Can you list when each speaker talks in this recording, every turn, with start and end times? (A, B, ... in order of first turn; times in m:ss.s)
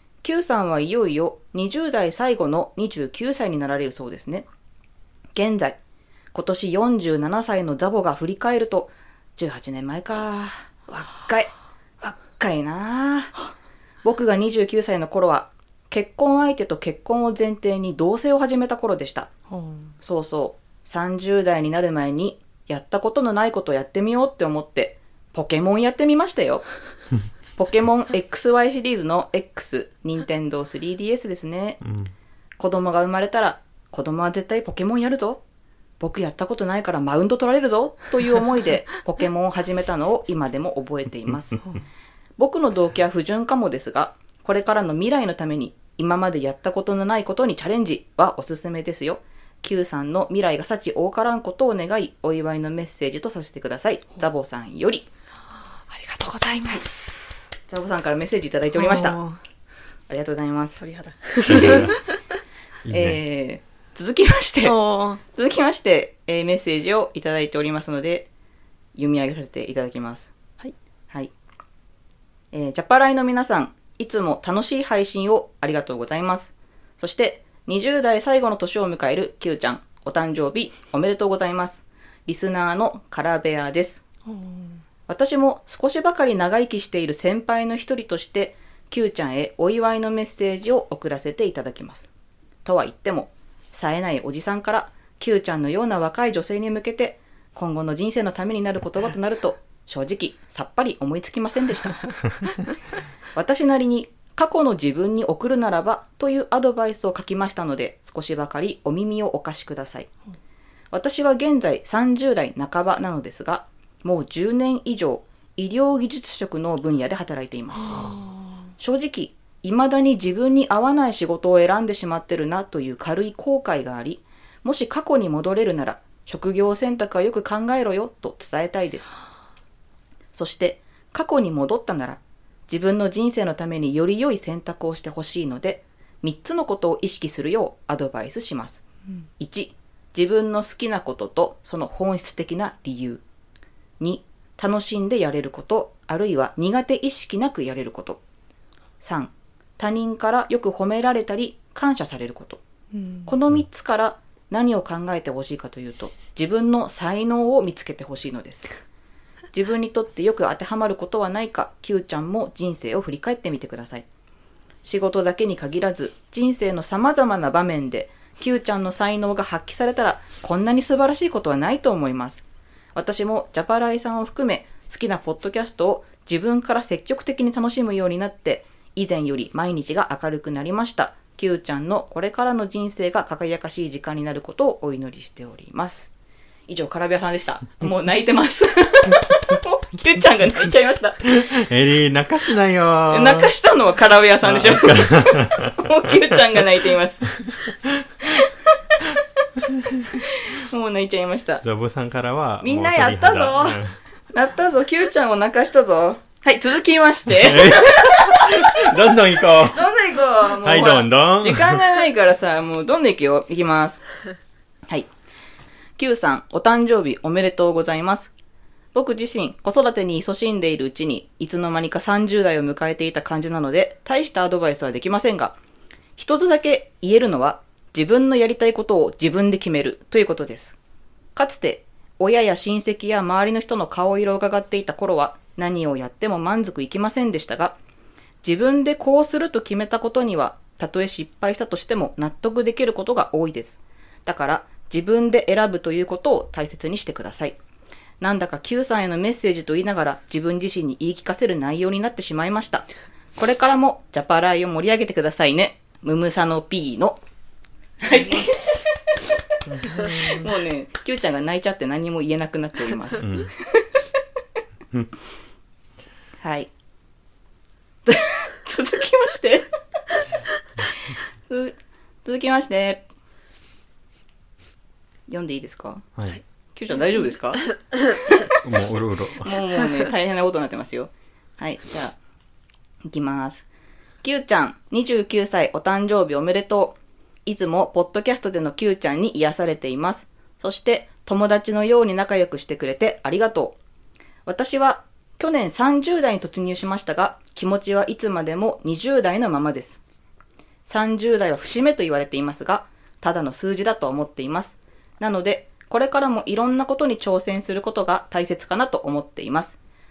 0:00.2-0:04.5 A
0:05.4-0:05.8 A
0:06.3-0:13.4 A
0:14.0-0:19.3 A
0:19.5-0:19.9 B
0:20.0-0:26.7 A
0:27.6-0:31.8 A
0:31.8-0:32.1 C
0:32.6-0:35.4 A
0:36.0-0:41.6 A
0:42.4-0:55.1 A
0:55.8-0:57.3 B
0:57.7-0:59.2 A
0:58.7-0:59.4 B
1:00.1-1:00.8 A
1:00.8-1:02.0 B
1:01.4-1:01.8 A
1:01.4-1:02.0 C
1:02.8-1:03.2 C
1:02.9-1:04.8 A
1:04.6-1:05.2 B
1:05.3-1:08.3 A
1:09.0-1:10.3 A
1:12.5-1:24.0 A
1:24.2-1:24.8 B
1:25.1-1:32.1 A
1:32.6-1:42.0 A
1:43.3-1:50.1 A
1:50.9-1:58.1 A
1:57.8-1:58.5 B
1:58.8-2:09.1 A
2:10.3-2:18.8 A
2:19.4-2:23.2 A
2:24.0-2:28.2 A
2:29.0-2:32.6 A
2:32.9-2:33.3 B
2:33.3-2:38.7 A
2:39.5-2:44.0 A
2:44.8-3:06.1 A
3:06.7-3:11.3 A
3:11.6-3:13.5 C
3:13.1-3:17.4 A
3:14.4-3:15.7 C
3:20.5-3:21.6 A
3:21.6-3:24.0 C
3:22.6-3:23.8 A
3:24.3-3:28.9 A
3:27.3-3:29.8 C
3:29.7-3:34.0 A
3:30.6-3:31.8 C
3:36.0-3:38.3 A
3:38.9-3:45.6 A
3:46.2-3:50.8 A
3:51.4-3:57.8 A
3:58.4-4:07.6 A
4:08.2-4:12.8 A
4:13.4-4:17.2 A
4:18.0-4:18.8 A
4:19.7-4:20.4 C
4:20.1-4:23.2 A
4:23.2-4:23.5 C
4:26.4-4:26.7 A
4:28.1-4:29.6 A
4:31.5-4:33.0 A
4:35.3-4:36.1 A
4:36.7-4:37.6 A
4:38.6-4:39.5 C
4:39.4-4:42.2 A
4:43.0-4:43.6 A
4:44.2-4:53.8 A
4:54.4-5:00.0 A
5:00.8-5:09.8 A